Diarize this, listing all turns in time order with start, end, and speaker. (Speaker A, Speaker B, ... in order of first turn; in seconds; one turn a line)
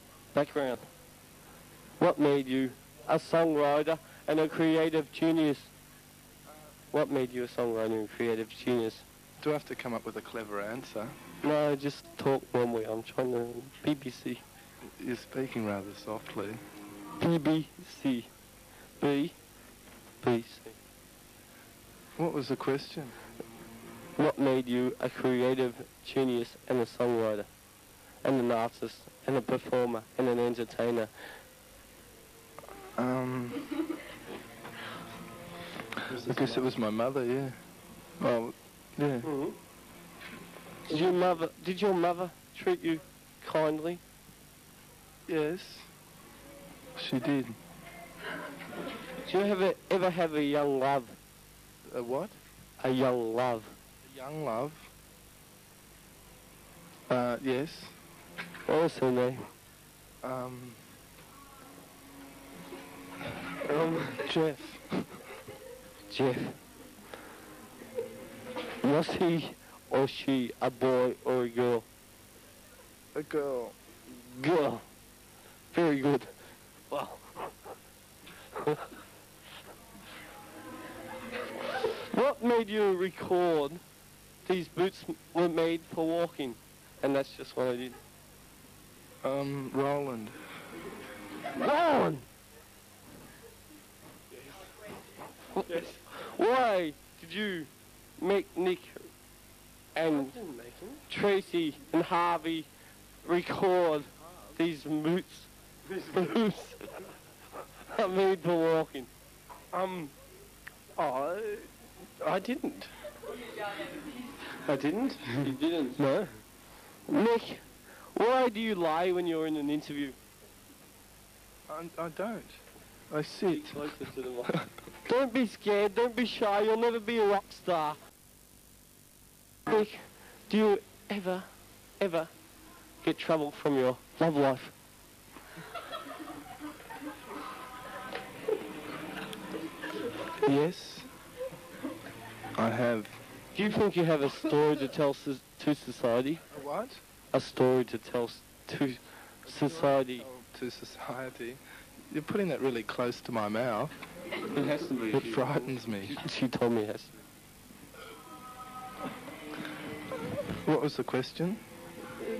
Speaker A: 0.3-0.8
Speaker A: 2.0-5.7
Speaker A: 6.9-9.0
Speaker B: 9.4-11.2
Speaker A: 11.4-14.4
Speaker B: 15.0-16.6
Speaker A: 17.2-18.3
Speaker A: 19.0-19.4
Speaker A: 20.2-20.8
Speaker B: 22.2-23.2
Speaker A: 24.2-27.5
Speaker A: 28.2-31.1
Speaker B: 33.0-33.7
Speaker C: 36.1-36.7
Speaker B: 36.1-37.6
Speaker B: 38.2-39.3
Speaker C: 39.2-39.5
Speaker A: 40.9-44.0
Speaker C: 40.9-41.3
Speaker B: 45.3-45.9
Speaker B: 47.0-47.6
Speaker A: 49.2-51.2
Speaker B: 51.9-52.4
Speaker A: 52.8-53.8
Speaker B: 54.0-54.9
Speaker B: 57.1-58.0
Speaker A: 58.7-59.5
Speaker B: 60.2-60.8
Speaker C: 63.6-64.3
Speaker B: 64.2-65.1
Speaker A: 66.1-66.6
Speaker A: 68.8-71.8
Speaker B: 73.1-73.7
Speaker A: 74.1-74.8
Speaker A: 75.7-76.3
Speaker A: 76.9-77.5
Speaker A: 78.5-78.9
Speaker A: 81.7-83.8
Speaker A: 84.4-88.0
Speaker B: 89.2-90.4
Speaker A: 91.5-92.2
Speaker A: 95.5-99.0
Speaker C: 95.7-96.0
Speaker A: 99.9-100.3
Speaker C: 100.1-101.0
Speaker A: 101.1-102.7
Speaker A: 103.2-106.9
Speaker A: 107.8-109.1
Speaker C: 109.7-110.1
Speaker C: 111.0-112.9
Speaker C: 114.6-116.3
Speaker A: 115.4-116.0
Speaker A: 117.1-120.2
Speaker B: 121.7-122.6
Speaker B: 123.1-124.7
Speaker A: 123.5-128.0
Speaker A: 129.7-131.5
Speaker A: 132.0-132.3
Speaker A: 133.0-134.7
Speaker B: 140.4-141.1
Speaker B: 142.6-143.2
Speaker A: 143.5-146.4
Speaker B: 146.5-147.0
Speaker A: 147.3-150.3
Speaker B: 149.5-151.6
Speaker B: 152.1-153.9
Speaker A: 154.5-157.2
Speaker B: 155.1-156.2
Speaker B: 160.6-161.6